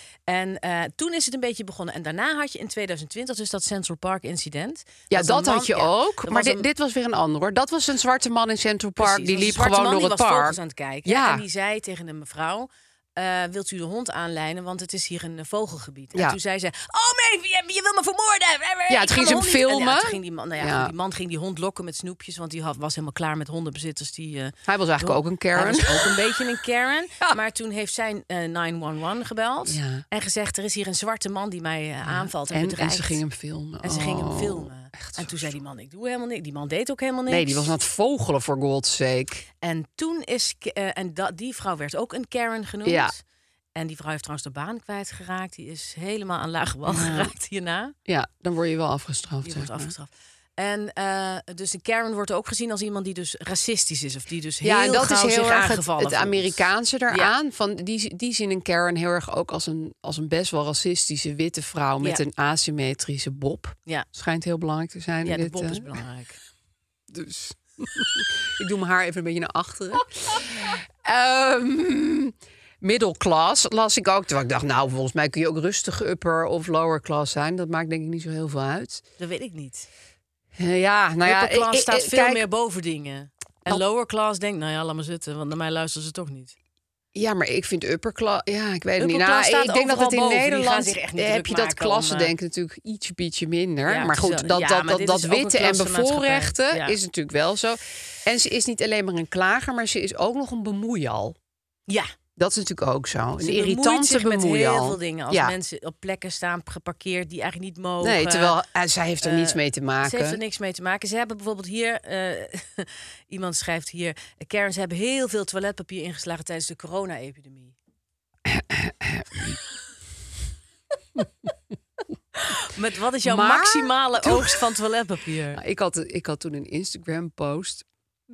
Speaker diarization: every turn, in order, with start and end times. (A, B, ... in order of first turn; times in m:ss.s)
0:00.3-0:06.6 A
0:05.1-0:11.4 B
0:09.0-0:33.2 A
0:18.9-0:20.9 B
0:24.6-0:26.2 B
0:29.6-0:30.0 B
0:32.0-0:35.6 B
0:33.8-0:37.7 A
0:37.3-0:39.5 B
0:39.6-0:43.2 A
0:42.8-0:43.1 B
0:43.8-0:47.9 A
0:46.9-0:47.3 B
0:48.1-0:49.9 B
0:49.4-0:57.3 A
0:54.6-1:05.9 B
1:05.2-1:06.4 A
1:07.1-1:19.0 B
1:19.2-1:19.9 A
1:20.5-1:22.4 B
1:21.2-1:26.5 A
1:27.2-1:41.4 B
1:29.0-1:32.3 A
1:33.9-1:37.0 A
1:42.4-1:45.5 B
1:43.4-1:48.6 A
1:48.0-1:50.4 B
1:49.2-1:57.8 A
1:58.5-1:59.6 B
2:02.4-2:05.6 A
2:03.2-2:04.6 B
2:05.5-2:07.8 B